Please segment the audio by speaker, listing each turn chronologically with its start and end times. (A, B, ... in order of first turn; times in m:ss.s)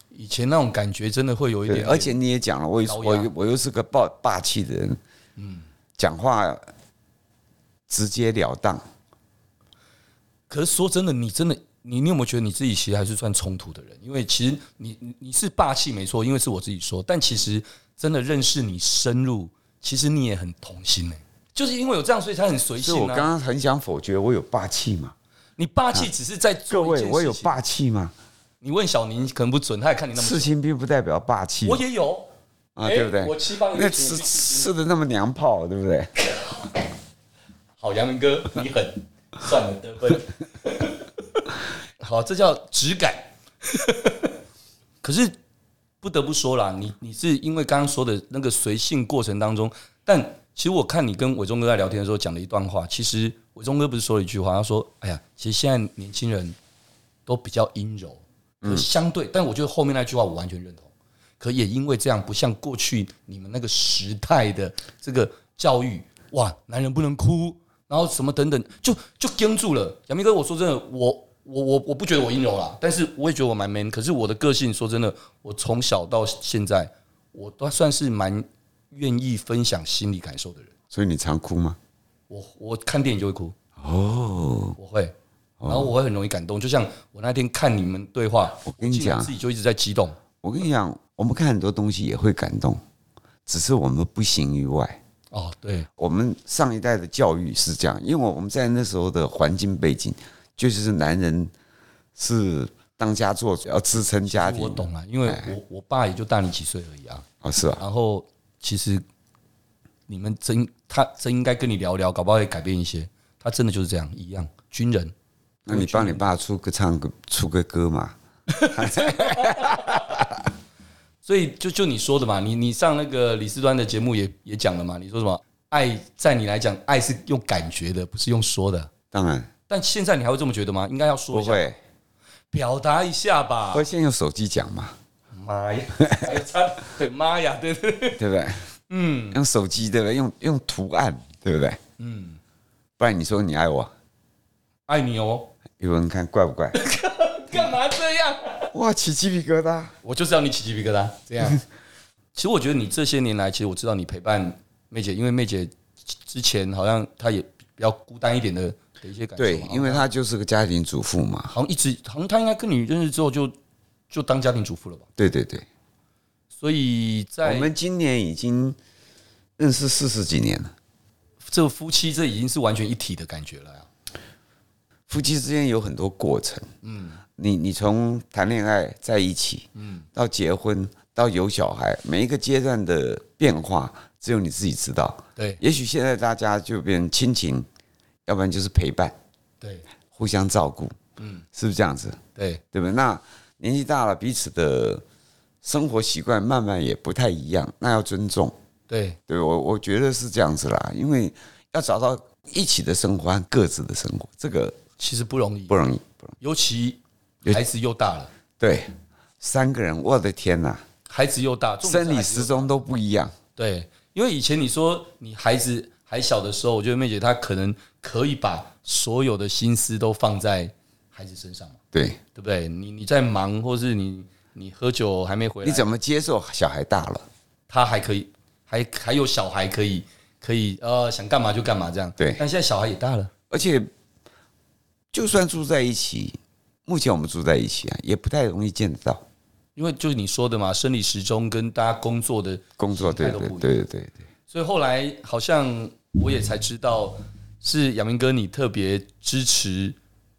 0:00.1-0:02.2 A
0:01.7-0:05.0 B
0:02.8-0:03.3 A
0:05.4-0:05.6 A
0:06.0-0:06.7 B
0:07.9-0:08.8 B
0:10.5-0:23.3 A
0:22.8-0:25.1 B
0:25.6-0:27.6 A
0:26.7-0:28.1 B
0:28.6-0:30.5 A
0:30.1-0:31.8 B
0:31.6-0:32.3 A
0:32.8-0:36.1 B
0:32.8-0:34.7 A
0:37.8-0:41.0 A
0:42.0-0:44.3 A
0:45.0-0:45.4 A
0:46.0-0:56.6 A
0:57.2-1:00.9 A
1:01.4-1:20.7 A
1:20.9-1:21.8 B
1:22.3-1:23.5 A
1:23.8-1:24.8 B
1:24.8-1:25.1 A
1:25.6-1:25.9 B
1:25.6-1:30.2 A
1:28.6-1:29.3 B
1:30.4-1:32.8 B
1:33.4-1:35.0 B
1:35.3-1:35.9 A
1:36.0-1:41.5 B
1:42.1-1:45.5 B
1:44.2-1:47.2 A
1:47.4-1:47.8 B
1:47.8-1:49.0 A
1:50.1-1:55.1 A
1:55.6-1:58.2 B
1:55.7-1:56.2 A
1:58.5-2:00.2 A
1:58.7-2:00.3 B
2:01.2-2:08.9 A
2:09.1-2:09.5 B
2:09.7-2:11.7 A
2:11.3-2:11.8 B
2:12.5-2:13.9 A
2:13.7-2:14.9 B
2:15.3-2:18.2 A
2:18.2-2:18.6 B
2:18.9-2:19.4 A
2:19.3-2:21.8 B
2:22.0-2:22.4 A
2:23.0-2:23.9 B
2:24.9-2:25.5 A
2:25.8-2:26.8 B
2:26.7-2:28.7 A
2:28.7-2:29.9 B
2:30.0-2:31.6 A
2:32.3-2:40.1 A
2:39.4-2:41.5 B
2:41.5-2:43.5 A
2:44.1-2:45.0 A
2:45.2-2:45.6 B
2:46.5-2:47.7 A
2:47.4-2:48.8 B
2:49.6-2:50.7 B
2:51.4-2:53.9 A
2:55.1-2:56.7 B
2:56.8-2:57.2 A
2:57.4-3:07.7 B
2:59.8-3:00.0 A
3:05.4-3:05.6 A
3:08.2-3:09.1 B
3:10.1-3:11.0 B
3:11.2-3:11.4 A
3:11.5-3:12.2 B
3:12.3-3:12.6 A
3:12.7-3:15.0 B
3:15.6-3:18.5 B
3:18.9-3:19.2 A
3:19.3-3:24.8 B
3:25.0-3:25.8 A
3:25.7-3:26.3 B
3:26.4-3:28.3 A
3:28.6-3:30.8 B
3:31.1-3:32.7 A
3:31.8-3:33.3 B
3:33.6-3:41.8 A
3:41.9-3:42.2 B
3:42.3-3:45.9 A
3:45.6-3:47.2 B
3:47.7-3:53.3 A
3:52.2-3:52.4 B
3:53.5-3:53.9 B
3:55.1-3:59.2 B
3:59.8-4:03.7 A
4:02.8-4:04.2 B
4:04.5-4:10.0 A